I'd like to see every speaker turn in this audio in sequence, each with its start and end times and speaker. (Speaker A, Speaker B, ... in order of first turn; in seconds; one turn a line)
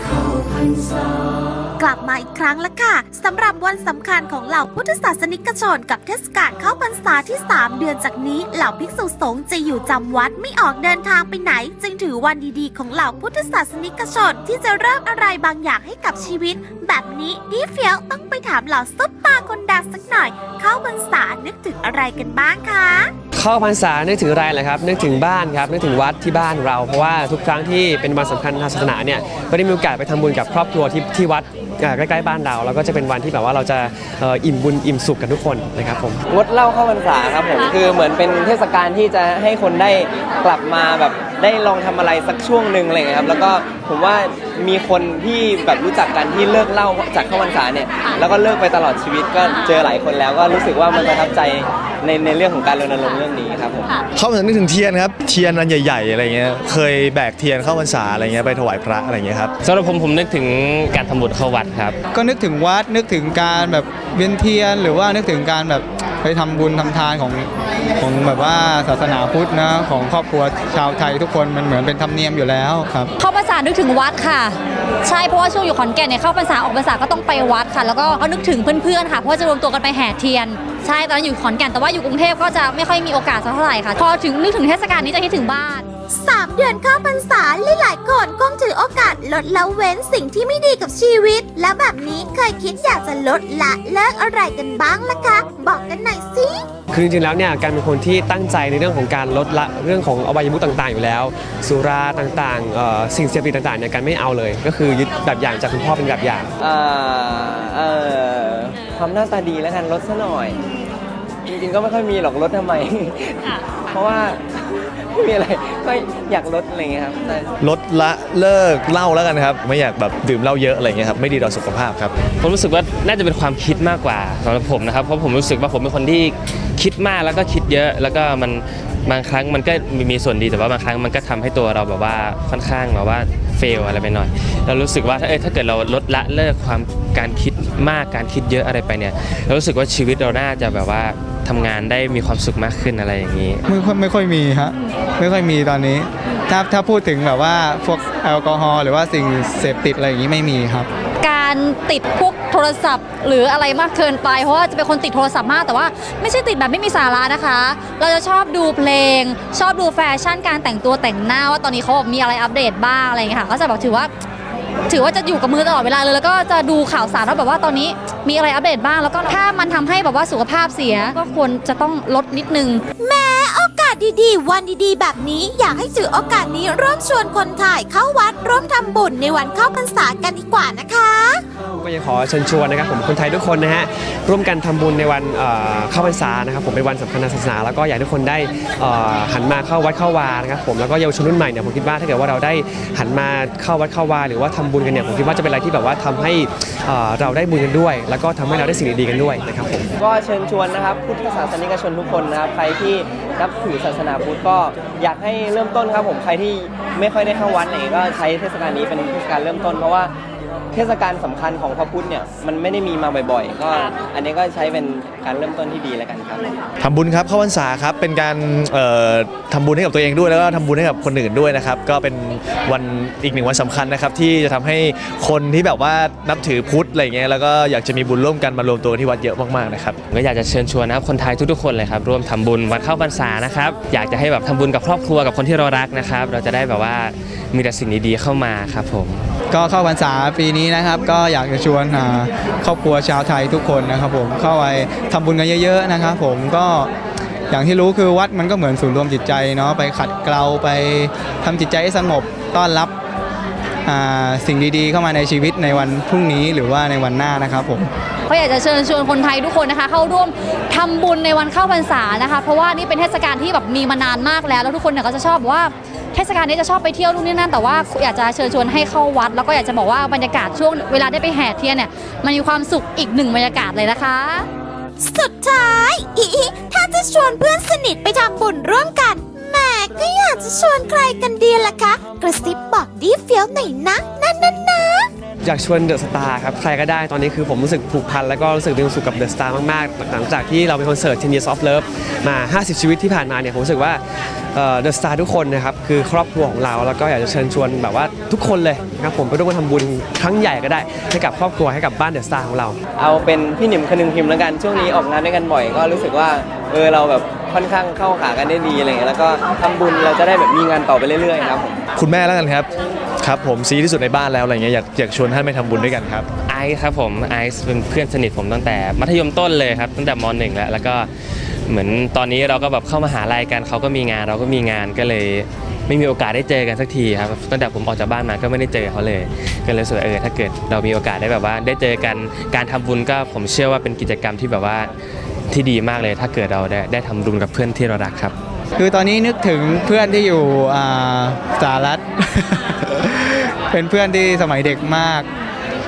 Speaker A: 1.8-23.1
Speaker B: 23.3-36.2
Speaker C: 36.3-54.0
Speaker D: 54.1-59.5
Speaker E: 59.6-62.0
Speaker F: 62.1-73.1
Speaker G: 73.2-85.8
Speaker A: 86.1-96.7
Speaker B: 96.9-106.5
Speaker C: 106.6-110.6
Speaker C: 111.5-117.5
Speaker D: 117.6-122.1
Speaker E: 122.4-143.6
Speaker F: 143.7-150.9
Speaker G: 151.2-164.1
Speaker G: 164.9-172.8
Speaker A: 173.0-181.4
Speaker B: 181.8-199.9
Speaker C: 200.0-210.1
Speaker C: 210.7-216.4
Speaker D: 216.8-230.0
Speaker E: 230.1-239.2
Speaker F: 239.5-246.9
Speaker F: 247.5-252.9
Speaker F: 253.8-257.9
Speaker G: 258.3-274.5
Speaker A: 275.0-285.1
Speaker B: 285.4-302.8
Speaker C: 303.0-311.8
Speaker D: 312.0-312.7
Speaker D: 313.2-316.3
Speaker E: 316.5-321.1
Speaker E: 321.7-334.9
Speaker E: 335.5-338.3
Speaker F: 338.8-345.3